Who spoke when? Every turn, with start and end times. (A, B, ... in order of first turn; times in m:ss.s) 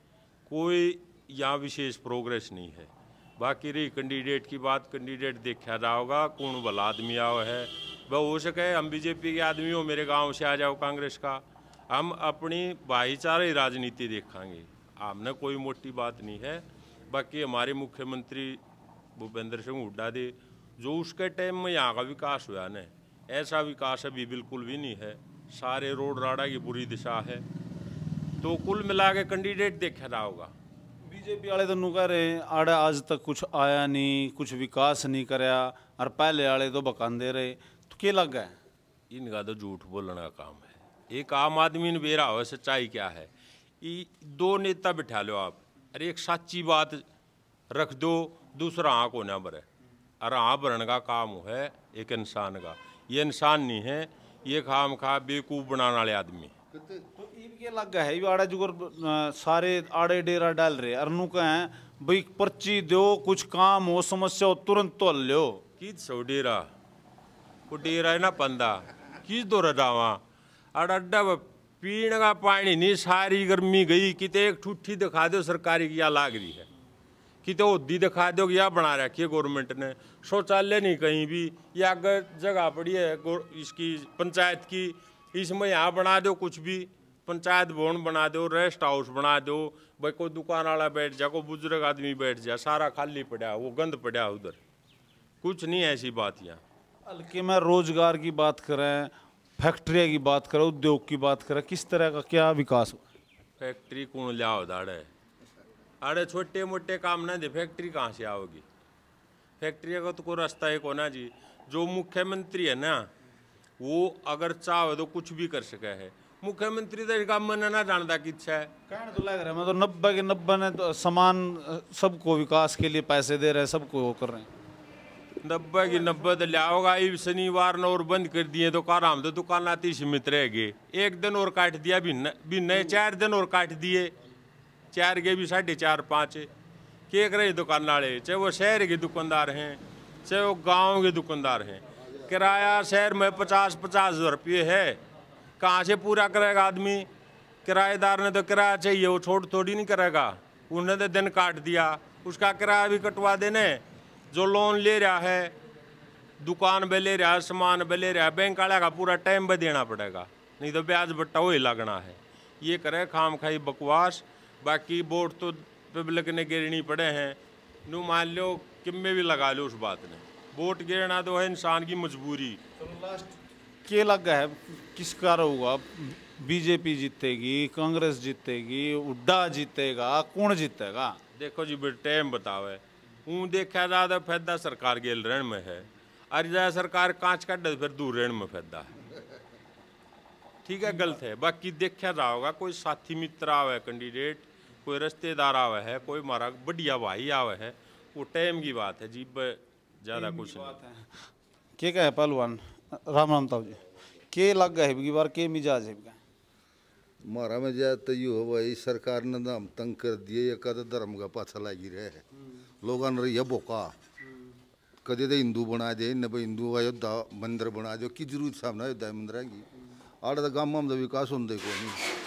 0:00.5-0:18.6 A
0:19.2-0:27.4 A
0:28.4-0:30.5 A
0:31.0-0:38.6 B
0:39.1-0:43.3 A
0:43.8-0:47.0 A
0:47.7-0:49.6 A
0:50.2-0:56.5 A
0:56.7-0:57.0 C
0:57.2-1:05.6 B
1:05.8-1:06.7 A
1:07.7-1:10.2 A
1:10.7-1:16.7 A
1:17.4-1:34.6 A
1:35.4-1:36.6 A
1:37.0-1:43.0 B
1:43.6-1:45.1 A
1:46.0-1:48.6 A
1:49.6-1:53.1 A
1:53.8-1:58.7 A
1:58.9-2:04.5 B
2:05.4-2:14.1 A
2:14.9-2:16.5 A
2:17.1-2:25.0 A
2:25.6-2:27.1 A
2:27.6-2:35.5 A
2:36.4-2:52.6 A
2:52.8-2:53.3 B
2:53.8-3:01.2 B
3:01.4-3:08.9 A
3:10.6-3:20.8 A
3:20.1-3:21.1 B
3:21.8-3:26.2 B
3:27.2-3:32.2 C
3:32.8-3:33.9 C
3:35.0-3:39.6 C
3:40.2-3:42.0 C